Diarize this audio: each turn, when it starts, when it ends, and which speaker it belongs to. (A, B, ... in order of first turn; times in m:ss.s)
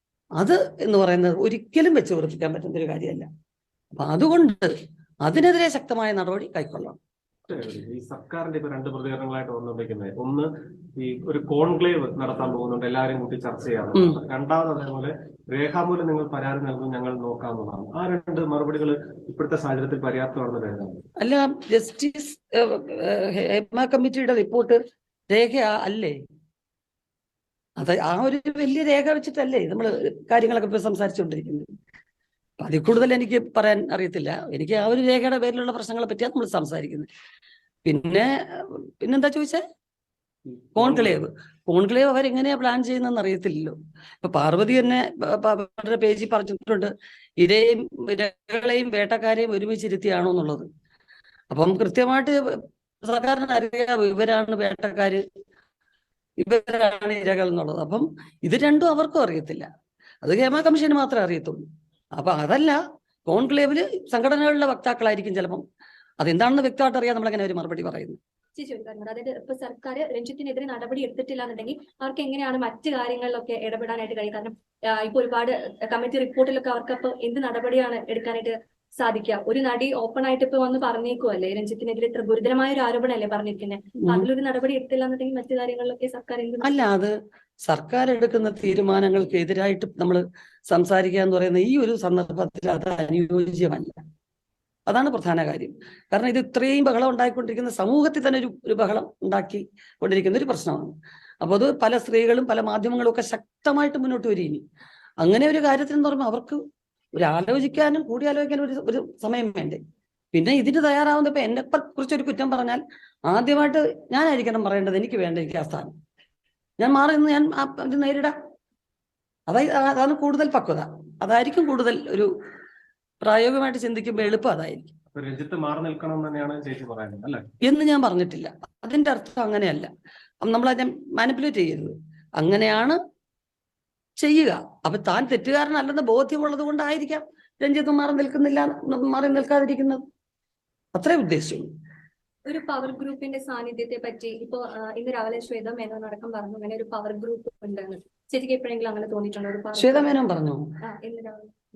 0:00.4-0:03.3 A
0:03.9-0:07.0 A
0:07.5-0:21.0 B
0:21.2-0:24.8 A
0:25.3-0:26.2 A
0:27.8-0:31.7 A
0:32.6-0:37.1 A
0:37.8-0:39.6 A
0:40.5-0:41.2 B
0:40.8-0:50.7 A
0:51.5-0:55.2 A
0:56.4-0:59.7 A
1:00.2-1:05.6 A
1:06.2-1:08.2 A
1:08.6-1:26.8 C
1:26.6-1:34.0 A
1:34.9-1:44.6 A
1:45.2-1:46.6 A
1:47.1-1:49.8 A
1:50.3-1:55.9 A
1:56.8-1:58.3 A
1:59.5-2:02.3 A
2:03.2-2:04.9 A
2:05.1-2:07.4 B
2:07.6-2:09.9 A
2:10.4-2:13.0 A
2:14.2-2:20.0 A
2:20.9-2:21.7 A
2:22.4-2:30.2 C
2:29.8-2:30.6 A
2:30.8-2:31.5 C